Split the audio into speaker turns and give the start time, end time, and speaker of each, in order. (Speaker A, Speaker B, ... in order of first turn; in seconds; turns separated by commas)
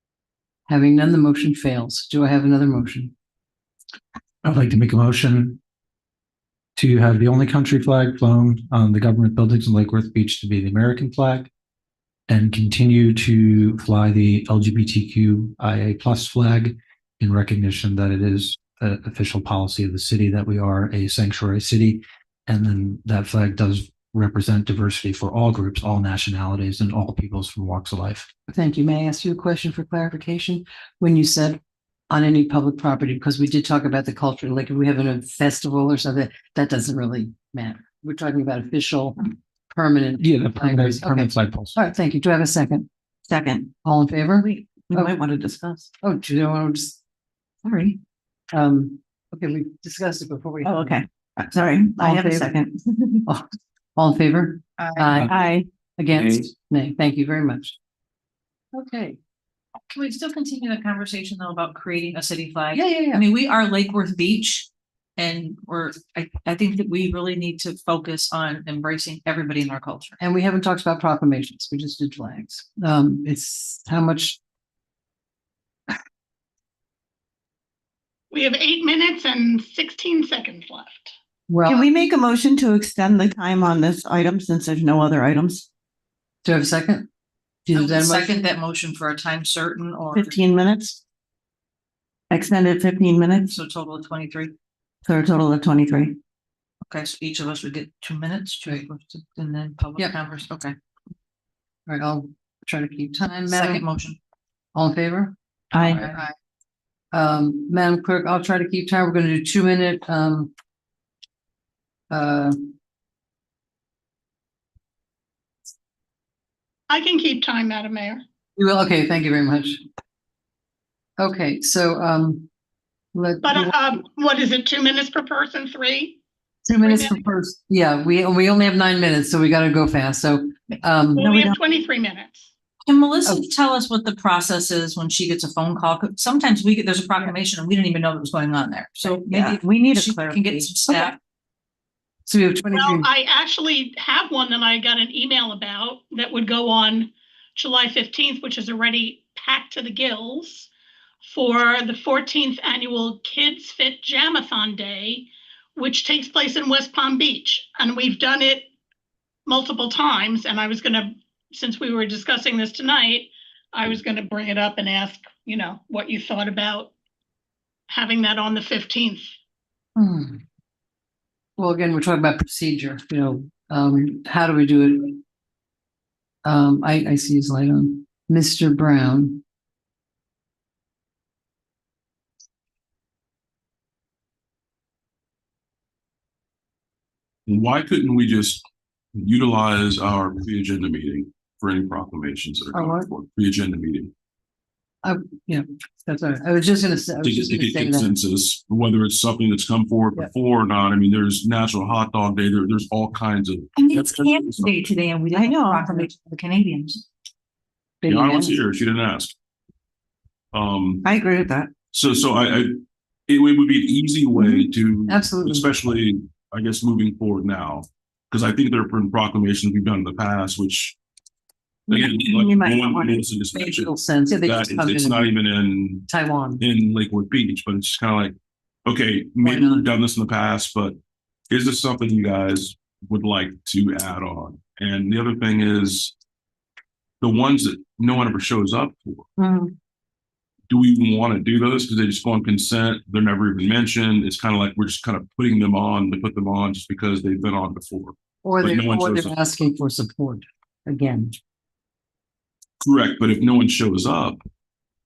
Speaker A: 0.7-3.1, Speaker B: 4.4-5.6, Speaker B: 6.8-11.5, Speaker B: 12.3-28.3, Speaker A: 28.5-42.9, Speaker B: 40.2-41.8, Speaker C: 43.3-43.7, Speaker A: 43.8-45.1, Speaker C: 44.4-45.9, Speaker A: 46.0-47.0, Speaker C: 47.6-48.0, Speaker A: 48.5-51.0, Speaker C: 50.6-53.2, Speaker A: 52.0-52.6, Speaker A: 53.2-55.3, Speaker D: 54.8-55.2, Speaker C: 55.2-55.7, Speaker A: 56.0-57.8, Speaker B: 56.1-56.5, Speaker A: 58.7-59.2, Speaker D: 59.9-70.2, Speaker A: 62.7-63.2, Speaker A: 70.2-74.4, Speaker E: 78.3-81.1, Speaker A: 81.5-81.8, Speaker C: 81.7-85.7, Speaker A: 86.4-87.1, Speaker A: 87.6-88.4, Speaker D: 87.7-90.4, Speaker C: 90.1-91.0, Speaker C: 92.3-93.5, Speaker D: 93.5-94.5, Speaker C: 95.0-96.2, Speaker D: 96.8-100.7, Speaker A: 101.9-103.9, Speaker D: 103.4-104.2, Speaker A: 104.7-106.3, Speaker C: 105.7-106.1, Speaker A: 107.1-110.5, Speaker A: 112.1-112.7, Speaker E: 116.9-118.2, Speaker A: 118.6-119.8, Speaker A: 121.2-122.5, Speaker A: 123.1-123.8, Speaker E: 123.4-126.2, Speaker A: 126.7-131.3, Speaker E: 126.7-127.3, Speaker E: 131.2-132.5, Speaker C: 131.2-131.6, Speaker D: 132.8-141.2, Speaker C: 139.0-141.0, Speaker A: 142.2-143.1, Speaker E: 142.7-150.7, Speaker E: 151.2-158.7, Speaker E: 159.4-166.9, Speaker E: 167.9-169.3, Speaker A: 169.9-170.4, Speaker A: 171.6-175.2, Speaker A: 176.4-179.4, Speaker F: 187.5-194.1, Speaker A: 192.7-193.1, Speaker A: 195.0-198.1, Speaker F: 197.2-204.7, Speaker D: 203.8-207.0, Speaker C: 205.3-206.1, Speaker A: 208.0-208.6, Speaker F: 208.1-209.3, Speaker F: 210.5-211.1, Speaker C: 211.0-211.8, Speaker F: 211.9-221.0, Speaker C: 214.4-214.7, Speaker A: 215.1-215.7, Speaker F: 221.9-223.9, Speaker C: 221.9-223.2, Speaker A: 223.5-225.4, Speaker F: 224.4-226.1, Speaker A: 226.1-226.6, Speaker F: 226.6-228.3, Speaker F: 228.8-231.0, Speaker A: 229.4-229.8, Speaker F: 231.5-236.1, Speaker F: 237.2-239.3, Speaker A: 239.4-239.7, Speaker F: 240.7-249.3, Speaker A: 248.4-251.4, Speaker F: 252.8-254.4